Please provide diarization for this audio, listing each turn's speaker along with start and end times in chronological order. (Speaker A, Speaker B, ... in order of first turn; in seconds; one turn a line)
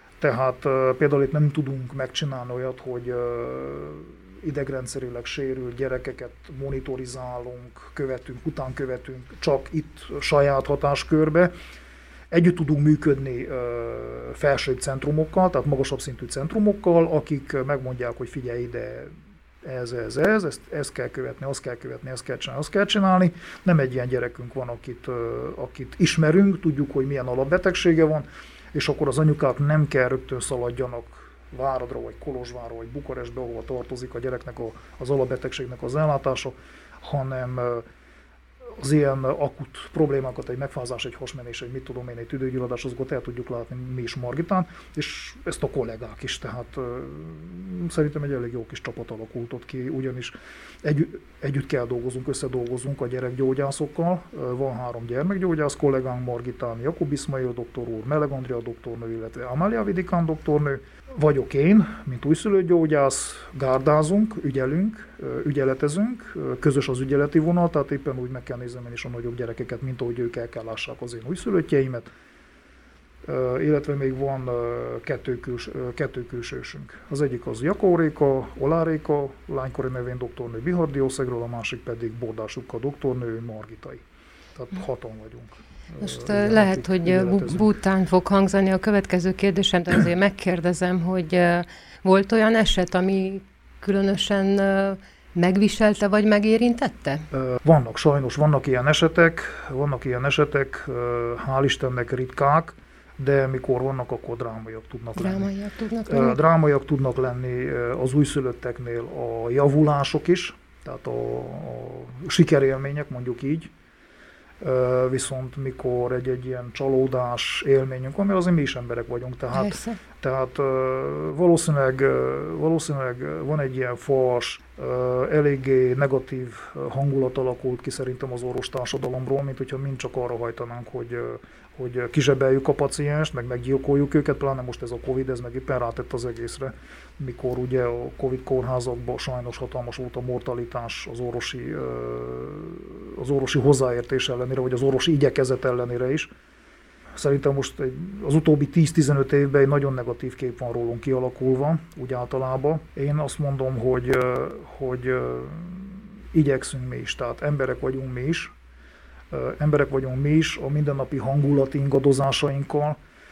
Speaker A: 0.2-11.5
Speaker A: 12.3-19.1
Speaker A: 19.6-37.8
Speaker A: 38.8-72.1
Speaker A: 73.2-84.0
Speaker A: 84.5-87.7
Speaker B: 86.0-97.3
Speaker A: 97.3-105.5
Speaker B: 105.2-106.4
Speaker A: 106.1-113.7
Speaker A: 114.6-146.3
Speaker B: 119.5-120.0
Speaker A: 147.2-158.5
Speaker A: 159.3-163.0